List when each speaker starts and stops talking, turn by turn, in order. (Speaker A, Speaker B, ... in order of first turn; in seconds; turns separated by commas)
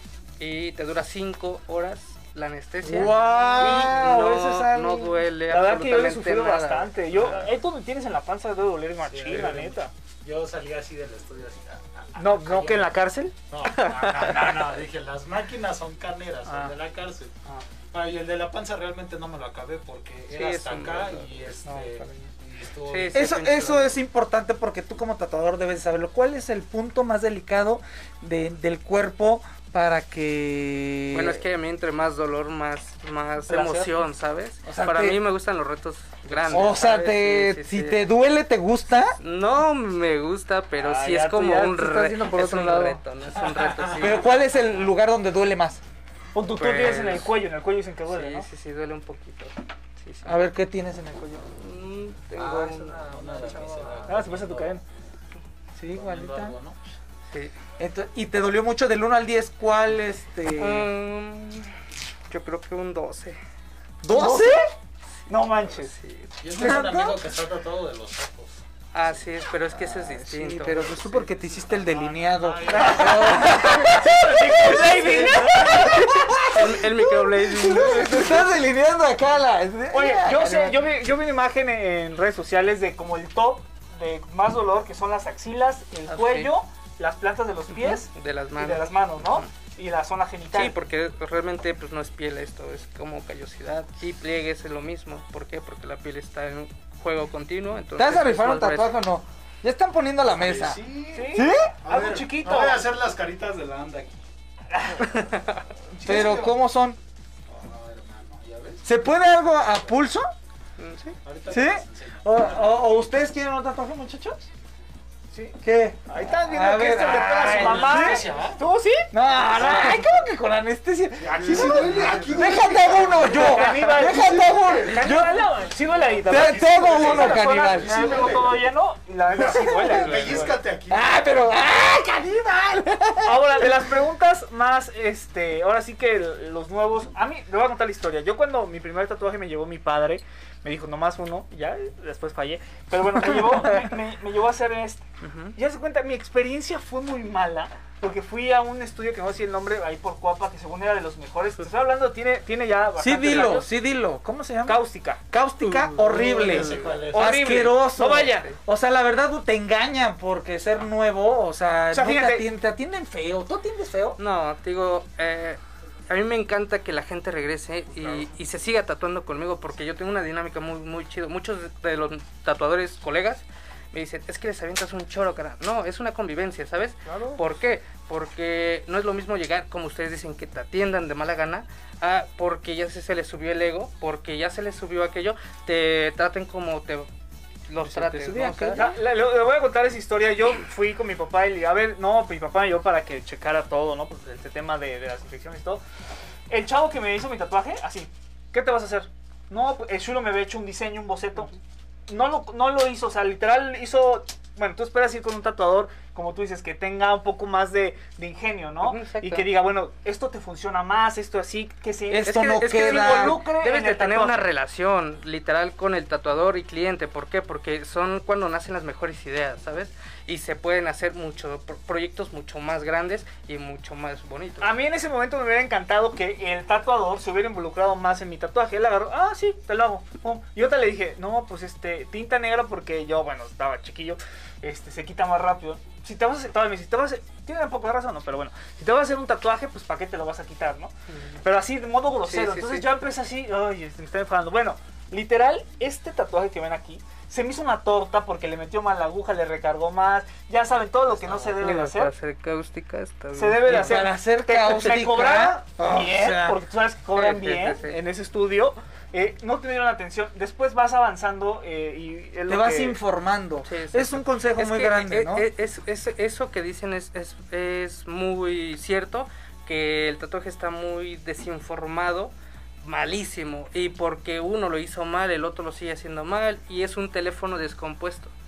Speaker A: 0.4-7.4, Speaker B: 2.8-5.2, Speaker C: 3.6-4.0, Speaker C: 5.5-9.9, Speaker D: 9.1-12.9, Speaker C: 12.2-13.3, Speaker D: 13.5-17.3, Speaker A: 13.6-14.6, Speaker C: 16.5-16.7, Speaker D: 17.9-23.3, Speaker A: 20.3-22.3, Speaker A: 22.9-24.0, Speaker B: 23.1-31.4, Speaker A: 31.1-38.1, Speaker C: 33.5-33.9, Speaker B: 34.6-35.2, Speaker C: 36.4-36.8, Speaker B: 36.5-39.2, Speaker A: 39.2-44.3, Speaker C: 40.8-41.8, Speaker B: 41.6-43.0, Speaker D: 43.4-44.3, Speaker B: 43.9-45.8, Speaker C: 46.3-48.5, Speaker A: 46.5-47.3, Speaker A: 48.1-50.5, Speaker B: 50.2-51.5, Speaker A: 51.5-53.9, Speaker B: 52.4-54.1, Speaker D: 53.0-54.8, Speaker C: 54.1-54.8, Speaker B: 55.8-56.6, Speaker D: 55.9-56.8, Speaker A: 57.3-57.5, Speaker B: 57.8-60.9, Speaker A: 60.6-61.7, Speaker A: 62.3-63.4, Speaker B: 64.0-64.6, Speaker C: 64.1-64.6, Speaker C: 65.3-65.9, Speaker A: 65.7-66.4, Speaker D: 66.4-68.6, Speaker B: 66.5-67.2, Speaker A: 68.9-71.4, Speaker B: 69.7-80.8, Speaker D: 71.7-73.8, Speaker C: 72.7-75.9, Speaker A: 74.6-78.6, Speaker C: 79.9-90.8, Speaker A: 86.1-86.5, Speaker A: 87.7-89.5, Speaker A: 90.5-99.0, Speaker B: 98.0-100.8, Speaker D: 100.3-104.2, Speaker C: 101.1-102.8, Speaker B: 101.3-101.7, Speaker C: 104.7-105.0, Speaker A: 105.0-105.7, Speaker D: 106.0-106.5, Speaker B: 106.0-107.0, Speaker D: 107.5-108.8, Speaker B: 108.8-110.3, Speaker A: 110.8-111.2, Speaker D: 111.2-112.8, Speaker B: 111.5-114.5, Speaker B: 115.6-118.3, Speaker C: 116.1-119.1, Speaker D: 117.1-118.6, Speaker B: 119.1-125.5, Speaker D: 121.2-125.0, Speaker C: 122.0-122.4, Speaker C: 123.2-130.6, Speaker D: 126.1-128.7, Speaker B: 126.2-128.3, Speaker D: 129.3-131.4, Speaker B: 129.5-133.8, Speaker C: 133.2-153.7, Speaker A: 145.2-145.6, Speaker B: 153.0-164.2, Speaker C: 154.7-155.2, Speaker A: 155.6-157.0, Speaker D: 156.0-157.5, Speaker C: 156.2-156.6, Speaker C: 157.1-158.5, Speaker C: 161.9-162.5, Speaker A: 164.2-187.1, Speaker C: 177.1-177.4, Speaker A: 187.7-188.9, Speaker B: 187.8-188.9, Speaker C: 188.7-195.8, Speaker C: 196.5-201.5, Speaker C: 202.1-214.5, Speaker A: 208.8-209.5, Speaker B: 212.1-213.4, Speaker A: 212.3-224.7, Speaker C: 224.6-252.1, Speaker A: 241.1-241.4, Speaker A: 242.3-242.9, Speaker A: 251.1-254.1, Speaker C: 253.3-263.0, Speaker B: 253.7-256.6, Speaker A: 257.1-258.0, Speaker B: 262.5-265.5, Speaker A: 263.6-278.3